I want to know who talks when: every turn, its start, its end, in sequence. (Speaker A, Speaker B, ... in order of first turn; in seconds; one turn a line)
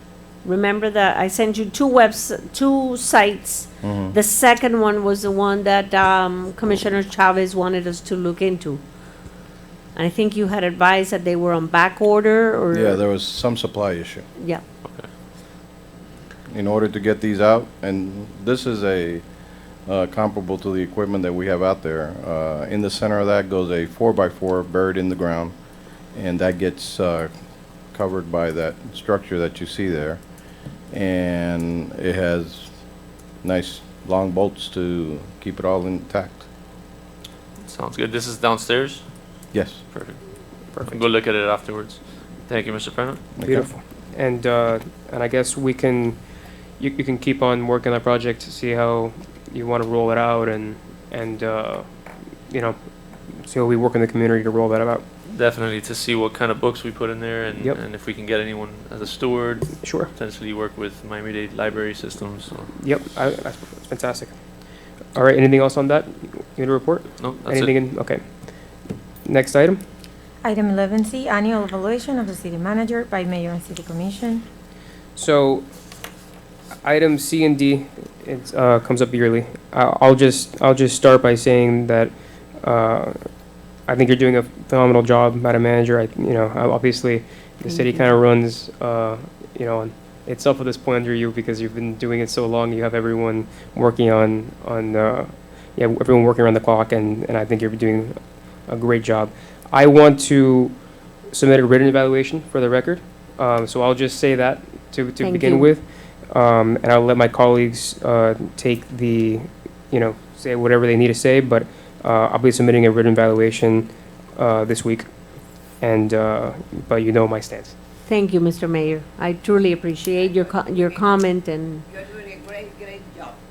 Speaker A: 0.4-8.8
Speaker B: 3.8-4.2
Speaker A: 9.9-13.0
Speaker B: 12.7-14.2
Speaker B: 16.5-19.2
Speaker B: 19.8-25.5
Speaker B: 26.1-27.3
Speaker B: 27.9-30.2
Speaker B: 30.9-32.7
Speaker B: 33.4-36.5
Speaker C: 37.7-39.0
Speaker B: 39.5-39.8
Speaker C: 39.9-40.2
Speaker D: 40.7-41.0
Speaker C: 40.8-43.2
Speaker B: 43.4-43.7
Speaker D: 43.4-46.2
Speaker D: 46.8-51.9
Speaker D: 52.5-52.8
Speaker D: 53.4-55.0
Speaker C: 55.3-62.7
Speaker D: 59.8-60.1
Speaker D: 62.8-64.3
Speaker D: 65.1-68.2
Speaker C: 67.2-67.8
Speaker D: 69.2-69.8
Speaker E: 70.4-74.4
Speaker D: 75.2-75.6
Speaker D: 76.8-83.2
Speaker D: 83.9-100.8
Speaker A: 87.7-88.2
Speaker D: 101.3-115.1
Speaker A: 105.2-105.7
Speaker D: 115.8-117.8
Speaker A: 118.1-121.8